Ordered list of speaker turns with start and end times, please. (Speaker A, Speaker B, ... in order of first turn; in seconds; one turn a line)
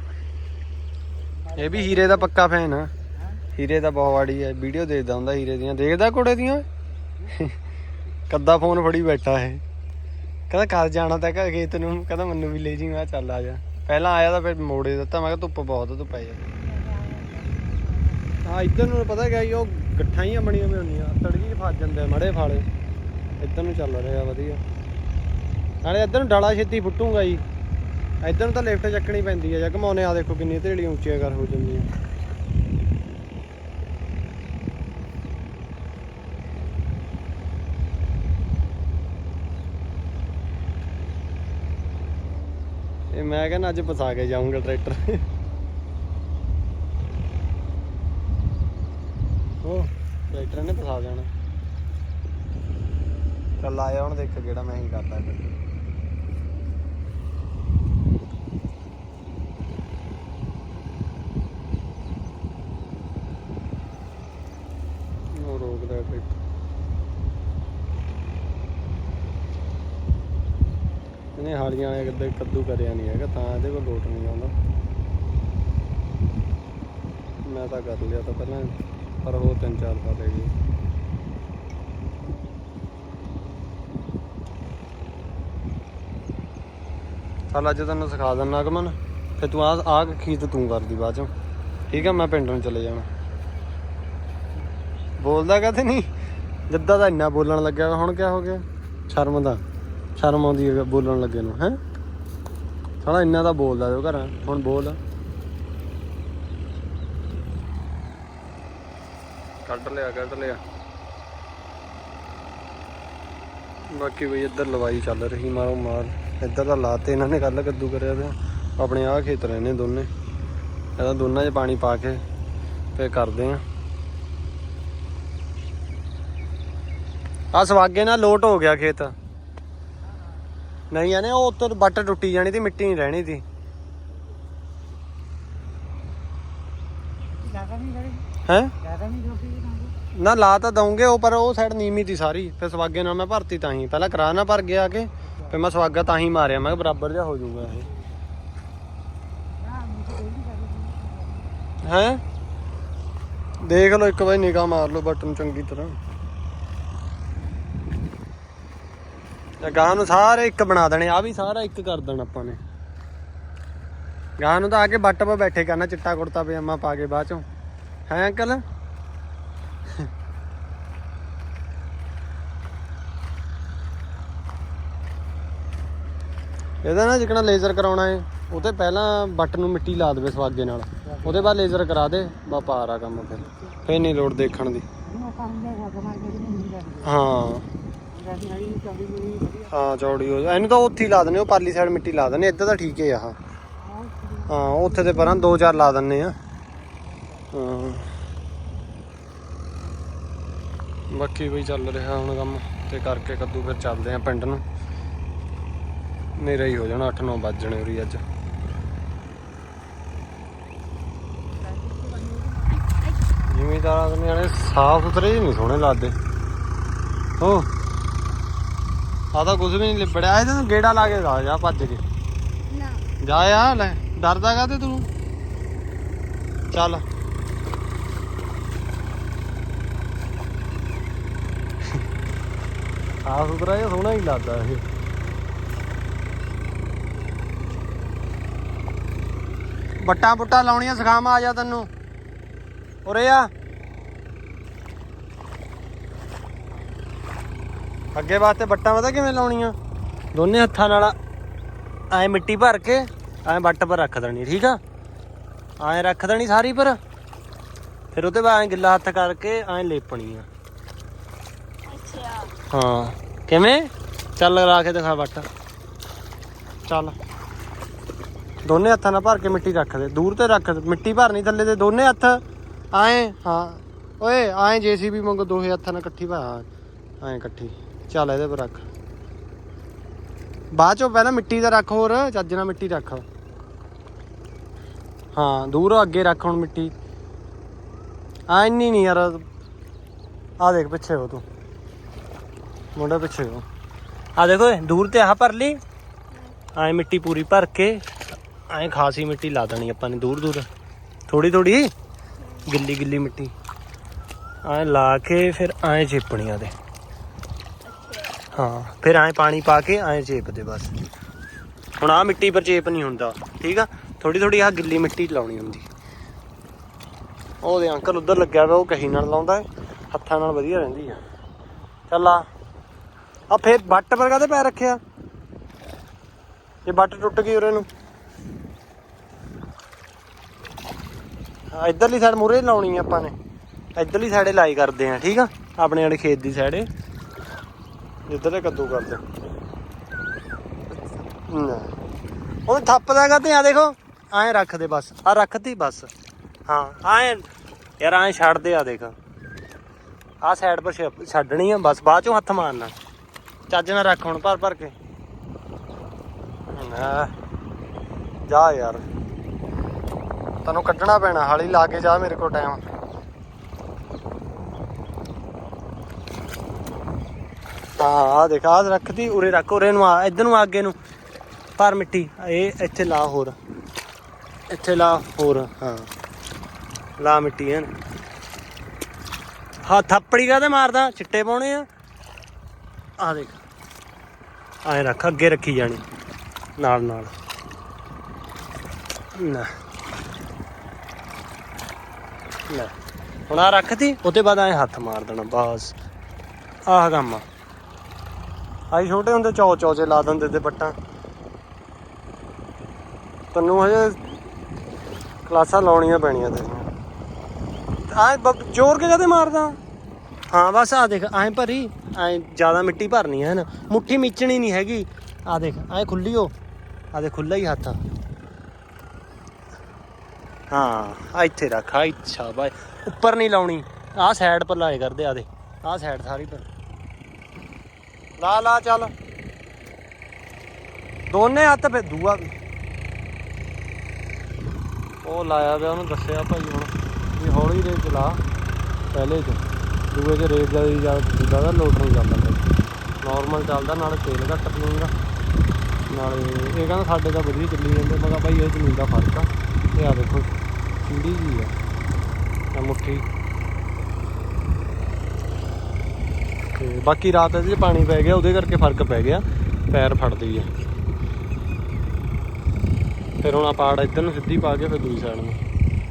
Speaker A: 1.4-2.3
Speaker B: 1.5-2.9
Speaker B: 3.5-6.7
Speaker B: 7.3-7.5
Speaker B: 8.3-9.6
Speaker B: 10.5-16.4
Speaker A: 16.7-18.2
Speaker B: 18.4-22.7
Speaker B: 23.4-24.6
Speaker B: 25.8-27.4
Speaker B: 28.2-31.9
Speaker B: 43.1-45.2
Speaker B: 49.6-51.3
Speaker B: 53.6-55.5
Speaker B: 65.3-66.3
Speaker B: 71.3-74.5
Speaker B: 77.4-80.5
Speaker B: 87.5-91.3
Speaker B: 91.9-93.1
Speaker B: 95.2-96.1
Speaker B: 96.7-99.6
Speaker B: 100.2-101.8
Speaker B: 103.0-105.0
Speaker B: 109.6-110.6
Speaker B: 113.9-120.1
Speaker B: 121.0-122.2
Speaker B: 122.9-123.6
Speaker B: 127.5-129.1
Speaker B: 130.9-133.4
Speaker A: 137.4-138.2
Speaker B: 138.4-138.7
Speaker A: 138.8-139.9
Speaker B: 140.1-147.9
Speaker A: 149.6-151.5
Speaker B: 151.8-152.2
Speaker B: 153.6-156.0
Speaker B: 159.6-162.6
Speaker B: 164.4-167.4
Speaker B: 168.1-168.6
Speaker B: 176.8-184.8
Speaker A: 181.1-181.6
Speaker A: 185.0-187.2
Speaker B: 187.0-187.7
Speaker A: 188.1-189.7
Speaker B: 189.7-193.4
Speaker A: 193.8-195.6
Speaker B: 194.5-196.3
Speaker B: 197.5-198.1
Speaker B: 201.1-204.6
Speaker B: 206.4-208.2
Speaker A: 211.6-212.8
Speaker C: 212.8-213.2
Speaker B: 213.5-216.1
Speaker B: 217.4-217.7
Speaker B: 219.3-222.0
Speaker C: 222.7-223.0
Speaker B: 223.2-225.1
Speaker B: 226.7-227.0
Speaker B: 233.2-234.8
Speaker B: 240.0-241.9
Speaker B: 243.1-243.5
Speaker B: 248.1-249.7
Speaker B: 250.3-251.1
Speaker B: 252.1-254.8
Speaker B: 255.8-257.0
Speaker B: 258.1-260.5
Speaker C: 261.9-262.5
Speaker B: 262.7-265.4
Speaker B: 266.9-267.1
Speaker B: 268.6-276.6
Speaker B: 277.2-278.9
Speaker B: 280.7-283.2
Speaker B: 285.3-286.9
Speaker B: 288.5-289.4
Speaker B: 290.6-291.4
Speaker B: 292.9-293.6
Speaker B: 294.4-295.8
Speaker C: 296.3-296.6
Speaker B: 296.7-300.7
Speaker B: 301.3-301.9
Speaker C: 302.4-302.7
Speaker B: 302.7-303.5
Speaker B: 304.6-306.7
Speaker C: 307.8-308.4
Speaker B: 308.5-310.9
Speaker B: 312.0-315.9
Speaker B: 317.6-321.2
Speaker B: 322.1-322.5
Speaker B: 323.5-325.0
Speaker B: 326.9-327.9
Speaker B: 331.7-333.3
Speaker B: 334.0-336.9
Speaker B: 338.3-339.2
Speaker B: 340.9-341.9
Speaker B: 342.7-346.1
Speaker B: 346.7-347.4
Speaker B: 348.0-349.1
Speaker B: 350.4-352.9
Speaker B: 353.7-354.9
Speaker B: 356.7-357.3
Speaker B: 358.5-359.0
Speaker B: 360.6-362.8
Speaker B: 368.0-370.9
Speaker B: 371.8-373.6
Speaker B: 374.7-376.1
Speaker B: 377.2-377.9
Speaker B: 379.8-381.9
Speaker B: 383.2-383.6
Speaker B: 384.8-386.0
Speaker B: 386.8-387.3
Speaker B: 389.3-389.7
Speaker B: 393.5-395.9
Speaker B: 396.9-397.4
Speaker B: 398.9-400.9
Speaker B: 403.5-404.2
Speaker B: 405.4-406.9
Speaker B: 408.1-409.8
Speaker B: 410.5-416.5
Speaker B: 417.1-418.0
Speaker B: 420.7-426.6
Speaker B: 428.4-429.1
Speaker B: 431.3-432.5
Speaker B: 435.2-438.4
Speaker B: 439.1-442.7
Speaker B: 443.2-445.1
Speaker B: 446.1-450.5
Speaker B: 451.0-451.7
Speaker B: 452.7-453.2
Speaker B: 456.8-460.7
Speaker B: 463.4-465.6